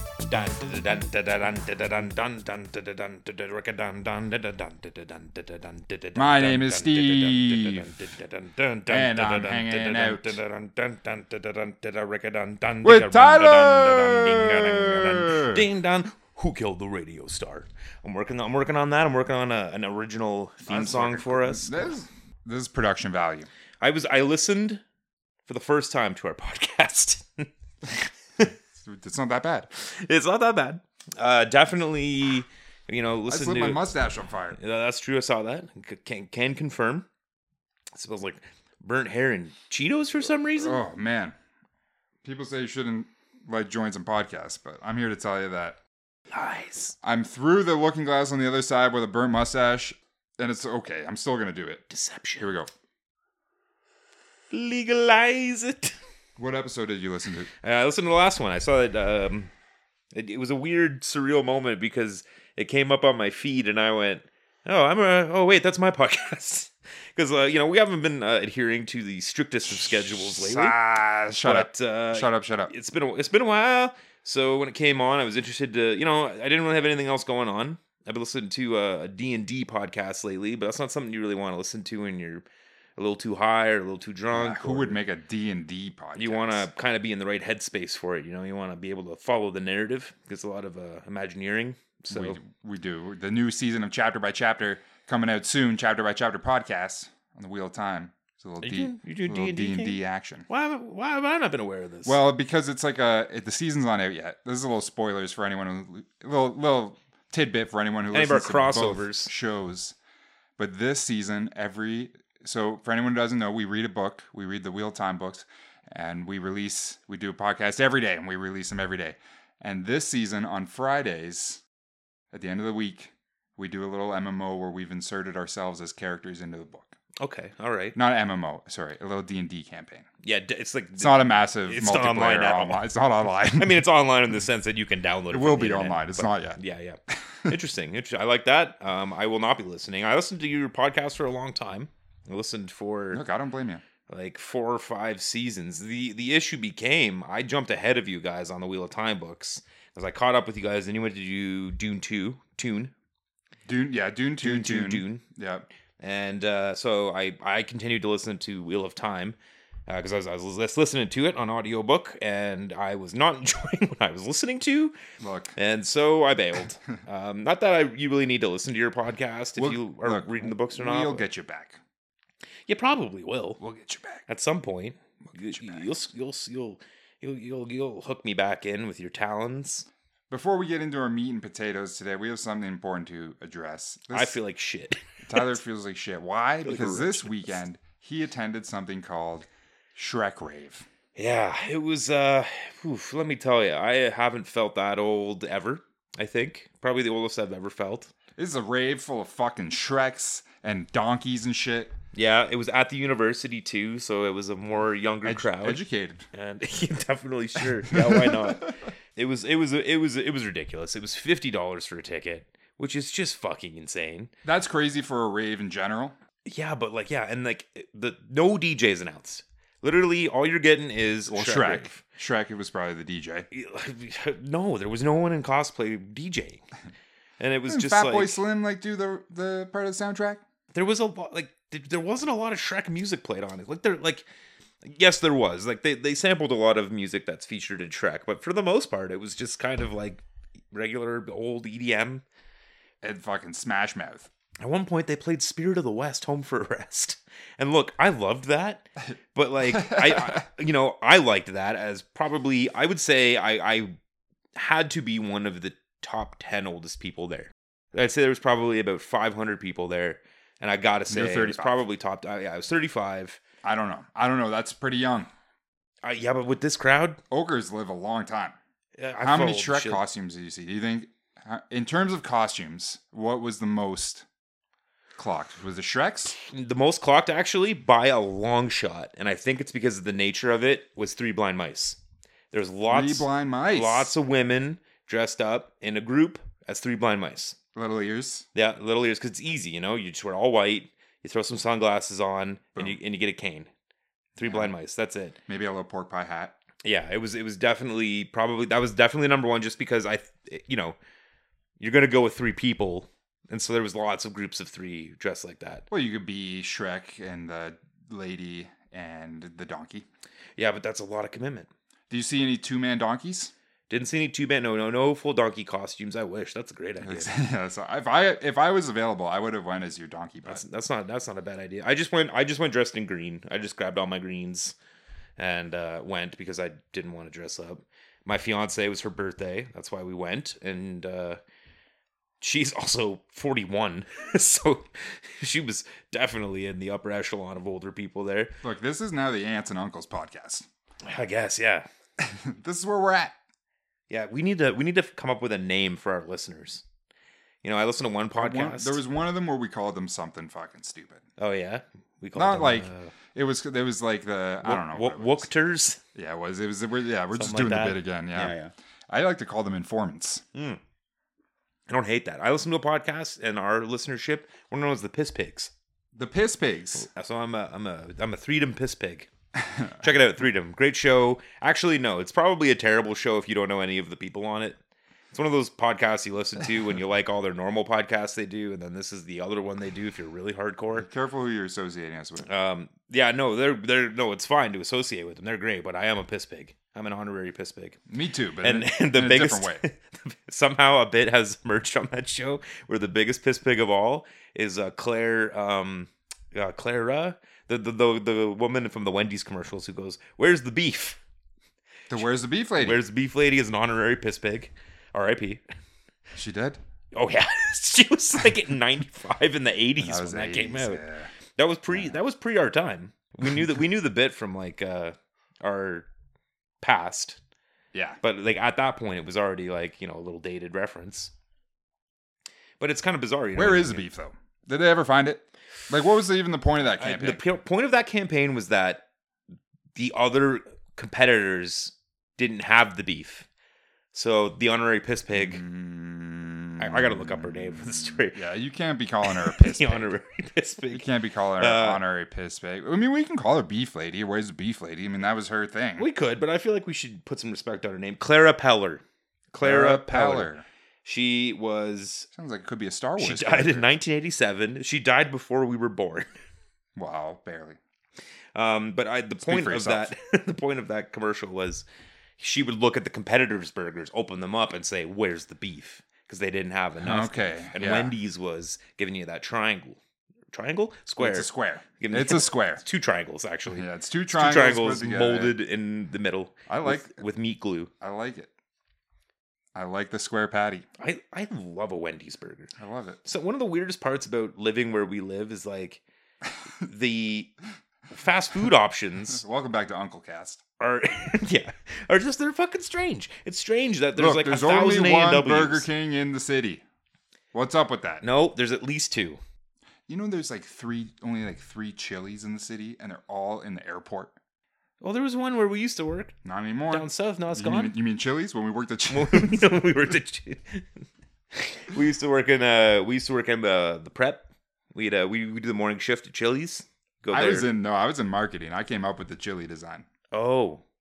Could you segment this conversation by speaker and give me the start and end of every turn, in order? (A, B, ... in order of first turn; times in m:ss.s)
0:00.3-0:21.9 A
0:06.2-0:07.9 B
0:08.9-0:10.4 B
0:12.8-0:15.6 B
0:20.6-0:23.5 B
0:23.8-0:24.8 A
0:25.5-0:28.5 A
0:28.8-0:29.7 B
0:29.8-0:33.8 A
0:33.3-0:34.6 B
0:34.6-0:37.1 A
0:37.9-0:40.8 A
0:40.6-0:41.4 B
0:42.2-0:45.8 B
0:46.3-0:47.0 A
0:47.0-0:51.8 B
0:51.9-0:52.5 A
0:52.4-0:52.7 B
0:54.5-0:56.0 A
0:56.4-0:57.5 B
0:57.6-0:59.5 A
1:00.1-1:10.8 A
1:09.7-1:12.7 B
1:11.4-1:22.4 A
1:23.0-1:25.0 A
1:24.3-1:26.7 B
1:26.2-1:32.4 A
1:32.1-1:40.5 B
1:38.6-1:42.2 A
1:42.0-1:50.0 B
1:48.1-1:49.3 A
1:50.6-2:01.6 B
2:02.3-2:07.0 B
2:07.2-2:08.0 A
2:08.0-2:10.1 B
2:10.2-2:12.9 A
2:11.0-2:13.8 B
2:13.4-2:23.2 A
2:15.3-2:16.6 B
2:17.1-2:17.5 B
2:23.1-2:23.8 B
2:24.1-2:32.9 A
2:33.7-2:35.7 B
2:34.4-2:35.2 A
2:36.0-2:39.4 A
2:39.9-2:45.0 A
2:45.2-2:45.6 B
2:45.6-2:51.2 A
2:49.6-2:51.8 B
2:52.7-2:53.6 A
2:53.6-2:54.2 B
2:54.3-2:59.9 A
2:55.3-2:55.9 B
3:00.3-3:04.4 B
3:04.1-3:05.6 A
3:05.3-3:10.9 B
3:06.6-3:07.6 A
3:11.2-3:18.1 A
3:18.4-3:21.9 B
3:22.1-3:25.8 A
3:25.2-3:26.3 B
3:26.3-3:34.3 A
3:27.8-3:28.7 B
3:34.4-3:36.2 B
3:36.4-3:42.0 A
3:41.3-3:43.5 B
3:43.5-3:46.6 A
3:47.4-3:48.4 A
3:47.7-3:50.4 B
3:50.7-3:54.3 A
3:54.8-4:02.2 A
4:03.0-4:04.3 B
4:04.6-4:14.0 A
4:09.7-4:10.4 B
4:14.6-4:23.4 A
4:21.1-4:21.8 B
4:23.6-4:25.3 B
4:26.0-4:27.2 A
4:27.3-4:28.6 B
4:29.0-4:30.0 A
4:29.2-4:34.3 B
4:35.2-4:36.4 B
4:36.3-4:42.0 A
4:42.5-4:47.6 A
4:42.9-4:44.2 B
4:47.8-4:48.5 B
4:48.6-4:53.7 A
4:54.4-4:55.4 A
4:54.4-4:54.7 B
4:55.5-4:56.6 B
4:56.8-5:01.0 A
5:01.8-5:05.9 A
5:05.9-5:10.1 B
5:10.6-5:11.7 A
5:12.1-5:13.5 B
5:13.9-5:17.4 A
5:17.0-5:20.6 B
5:20.5-5:24.8 A
5:25.4-5:31.4 A
5:32.4-5:38.5 A
5:38.6-5:40.7 B
5:41.0-5:41.9 A
5:42.2-5:43.3 B
5:44.1-5:46.8 A
5:47.6-5:49.0 A
5:48.4-5:51.2 B
5:51.4-5:53.1 A
5:52.4-5:55.5 B
5:54.6-5:56.0 A
5:56.2-6:00.4 B
5:57.3-5:58.7 A
6:00.6-6:00.8 A
6:01.9-6:05.7 A
6:06.2-6:07.1 B
6:07.0-6:09.3 A
6:09.9-6:14.8 A
6:15.3-6:21.1 A
6:20.9-6:22.5 B
6:22.4-6:28.0 A
6:28.1-6:29.8 B
6:28.6-6:41.2 A
6:42.1-6:43.0 B
6:42.8-6:45.6 A
6:46.4-6:46.8 B
6:47.1-6:56.1 A
6:50.0-6:51.3 B
6:56.8-6:57.4 A
6:57.9-6:58.2 B
6:58.2-7:01.3 A
7:02.8-7:04.0 A
7:03.6-7:07.4 B
7:07.0-7:09.0 A
7:10.0-7:13.5 A
7:14.1-7:15.6 A
7:15.3-7:20.1 B
7:16.8-7:18.4 A
7:19.2-7:22.0 A
7:20.9-7:26.1 B
7:26.0-7:29.0 A
7:29.5-7:30.6 B
7:29.6-7:30.5 A
7:31.0-7:32.3 A
7:32.4-7:33.9 B
7:33.2-7:36.3 A
7:37.0-7:37.8 B
7:38.6-7:41.9 A
7:39.4-7:40.1 B
7:42.4-7:50.0 A
7:47.0-7:48.1 B
7:50.5-7:51.5 A
7:51.2-7:52.8 B
7:52.0-7:57.9 A
7:53.7-7:55.6 B
7:56.7-7:57.2 B
7:58.0-7:58.5 B
7:59.8-8:00.9 B
8:01.0-8:02.7 A
8:02.8-8:03.2 B
8:03.2-8:06.0 A
8:06.8-8:07.5 A
8:08.1-8:09.4 A
8:09.3-8:10.6 B
8:10.8-8:15.9 A
8:14.2-8:16.8 B
8:17.5-8:18.2 B
8:18.2-8:19.4 A
8:20.1-8:24.4 B
8:25.0-8:26.4 A
8:26.4-8:29.9 B
8:26.9-8:27.9 A
8:29.1-8:37.7 A
8:37.3-8:40.1 B
8:40.3-8:40.8 A